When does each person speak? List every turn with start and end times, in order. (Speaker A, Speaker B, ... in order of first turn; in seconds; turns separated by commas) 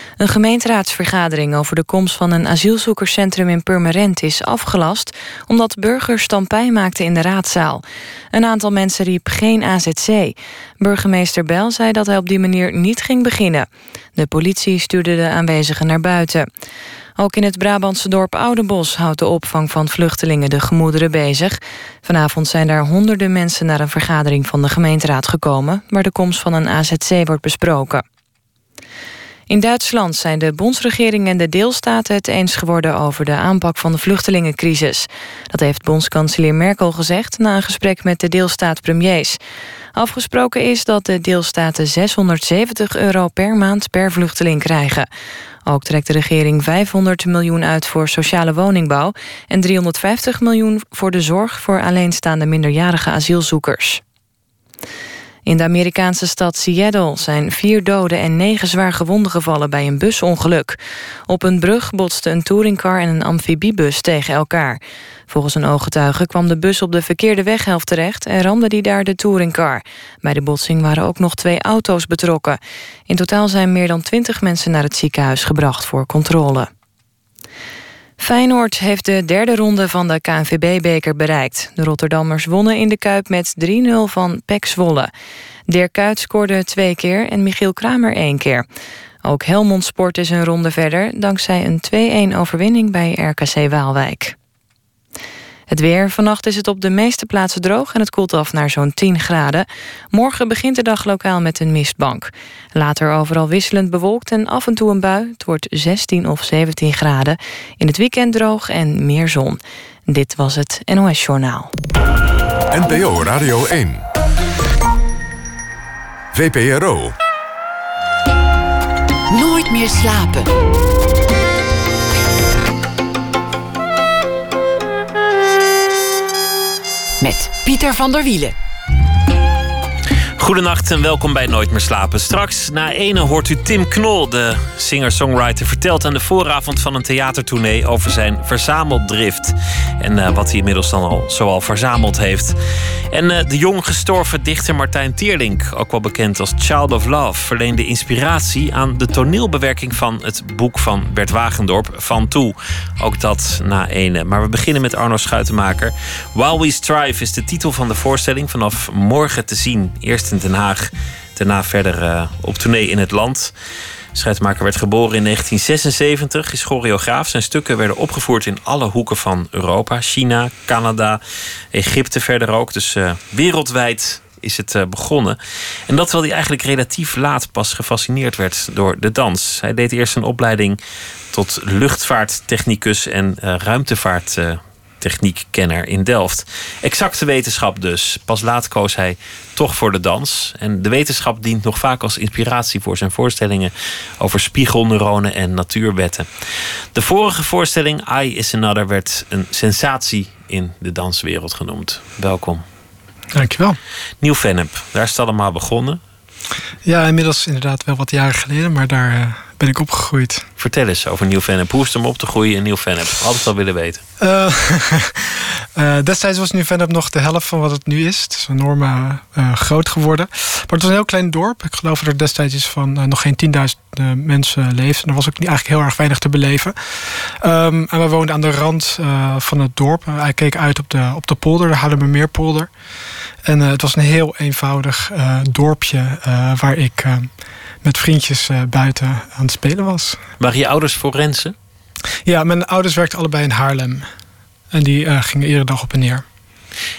Speaker A: 0.2-16.5, Speaker A: 17.2-28.0, Speaker A: 29.5-39.4, Speaker A: 40.0-45.1, Speaker A: 45.6-54.0, Speaker A: 55.5-76.7, Speaker A: 78.2-85.1, Speaker A: 85.7-88.7, Speaker A: 89.2-94.3, Speaker A: 95.7-111.7, Speaker B: 112.7-114.0, Speaker B: 116.3-117.1, Speaker C: 119.3-120.5, Speaker C: 127.2-128.5, Speaker D: 130.4-142.5, Speaker D: 143.1-163.5, Speaker D: 164.1-171.2, Speaker D: 171.7-175.4, Speaker D: 175.9-180.8, Speaker D: 181.3-196.3, Speaker D: 196.9-202.6, Speaker E: 203.3-203.8, Speaker D: 204.2-206.0, Speaker E: 206.8-210.5, Speaker D: 210.6-214.0, Speaker E: 214.2-232.7, Speaker E: 233.4-237.3, Speaker E: 237.8-240.2, Speaker D: 240.4-241.5, Speaker E: 242.2-244.1, Speaker E: 244.7-246.2